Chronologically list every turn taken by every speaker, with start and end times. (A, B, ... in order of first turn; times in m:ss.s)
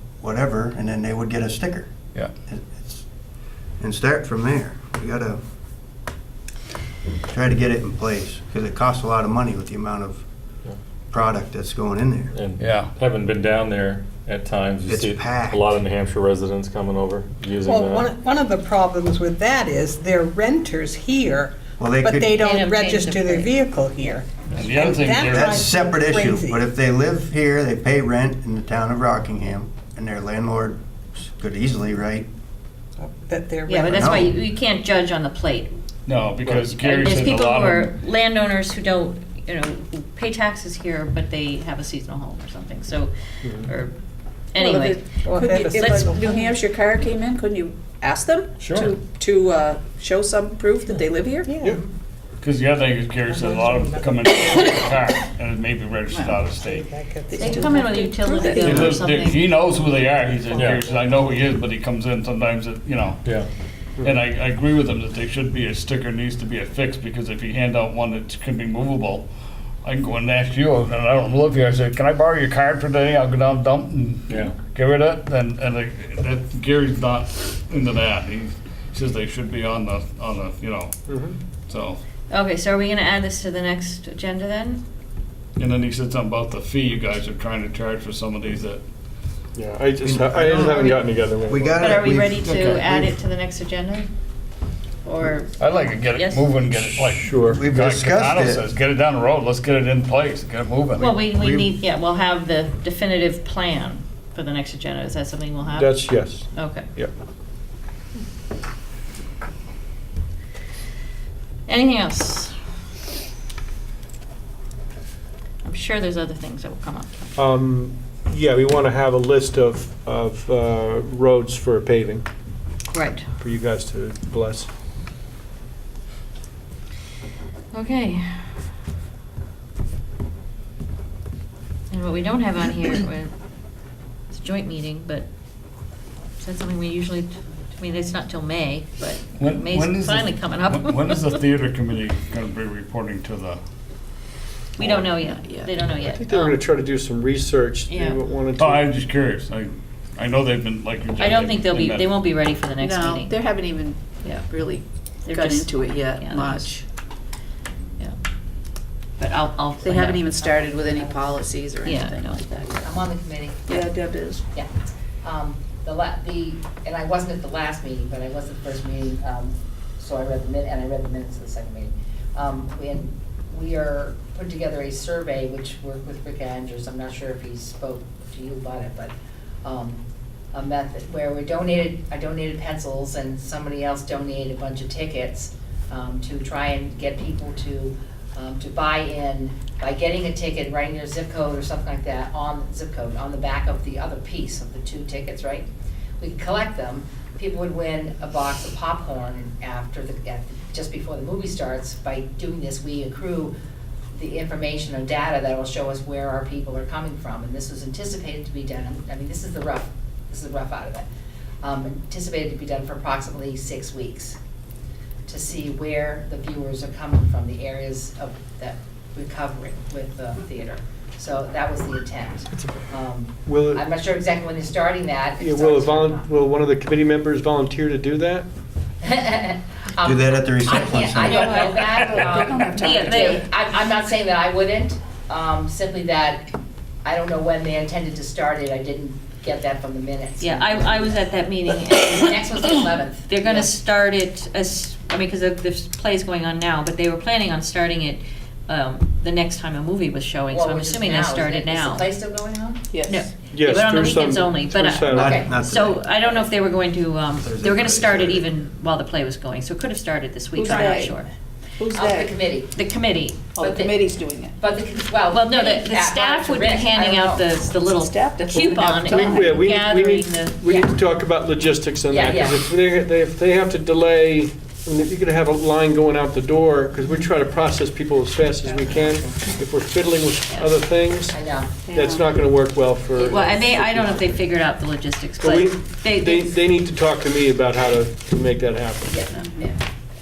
0:00.2-0:01.9 A
0:02.5-0:03.0 A
0:03.8-0:05.4 A
0:07.3-0:10.2 A
0:11.1-0:12.3 A
0:12.4-0:18.1 B
0:12.6-0:12.9 C
0:14.9-0:15.6 A
0:17.6-0:26.7 D
0:21.8-0:22.4 A
0:22.4-0:23.6 E
0:24.6-0:25.6 C
0:25.1-0:32.3 A
0:33.0-0:34.2 D
0:33.7-0:35.7 E
0:33.9-0:34.3 A
0:36.1-0:37.9 C
0:36.4-0:44.0 E
0:43.4-0:43.7 F
0:44.5-0:45.1 E
0:44.6-0:51.5 G
0:45.2-0:46.5 D
0:48.6-0:48.9 B
0:51.4-0:51.8 D
0:52.4-0:56.9 C
0:53.3-0:54.7 D
0:56.1-0:56.5 G
0:56.5-0:58.7 D
0:57.3-0:59.4 G
0:57.4-0:59.4 E
0:58.6-1:03.2 C
1:00.0-1:01.2 D
1:00.5-1:00.8 B
1:03.2-1:03.5 B
1:04.0-1:09.3 C
1:09.8-1:21.0 C
1:14.3-1:14.5 B
1:21.1-1:21.4 F
1:21.6-1:22.0 C
1:22.3-1:24.8 E
1:25.6-1:28.8 C
1:29.6-1:31.9 F
1:30.0-1:32.9 A
1:31.8-1:34.1 E
1:32.4-1:33.1 C
1:35.0-1:36.5 E
1:35.6-1:41.2 C
1:37.0-1:37.6 F
1:37.5-1:38.6 A
1:41.0-1:46.9 E
1:41.3-1:41.7 A
1:45.7-1:47.1 F
1:51.7-1:52.5 E
1:55.6-1:57.3 E
1:57.4-2:02.3 F
2:02.9-2:03.2 E
2:03.4-2:04.7 F
2:07.7-2:08.4 E
2:11.9-2:13.3 E
2:14.3-2:15.3 E
2:16.4-2:21.4 E
2:19.4-2:23.6 C
2:24.8-2:26.6 E
2:25.2-2:25.7 G
2:26.0-2:29.0 F
2:27.9-2:28.2 E
2:28.6-2:32.1 C
2:31.2-2:33.6 E
2:32.8-2:36.8 G
2:34.2-2:34.5 E
2:35.2-2:36.8 E
2:39.2-2:40.5 E
2:39.8-2:42.3 G
2:40.4-2:41.4 H
2:41.8-2:42.8 E
2:42.7-2:44.0 H
2:43.7-2:44.4 G
2:45.2-3:15.7 H
3:16.2-3:23.5 H
3:24.1-3:31.1 H
3:31.6-3:34.4 H
3:35.3-3:46.3 H
3:43.5-3:43.9 F
3:45.4-3:48.5 F
3:49.0-3:56.5 H
3:50.0-3:51.6 A
3:51.3-3:51.8 E
3:51.3-3:53.4 G
3:52.7-3:53.4 E
3:57.0-4:03.8 H
4:00.4-4:02.7 E
4:03.3-4:12.1 E
4:10.5-4:12.8 H
4:12.9-4:13.3 G
4:13.1-4:21.3 E
4:13.5-4:15.4 F
4:15.1-4:16.1 A
4:15.1-4:15.5 H
4:17.4-4:18.5 A
4:20.6-4:21.2 G
4:21.8-4:22.4 G
4:21.9-4:22.7 H
4:22.7-4:23.5 E
4:23.6-4:24.6 G
4:23.6-4:27.5 H
4:25.3-4:30.6 E
4:27.9-4:29.6 G
4:28.7-4:41.4 F
4:32.1-4:32.7 H
4:38.7-4:39.3 H
4:40.5-4:40.8 E
4:41.3-4:41.8 H
4:41.9-4:42.3 G
4:41.9-4:44.4 F
4:43.2-4:46.6 E
4:45.4-4:49.3 F
4:49.1-4:49.8 H
4:49.3-4:49.7 G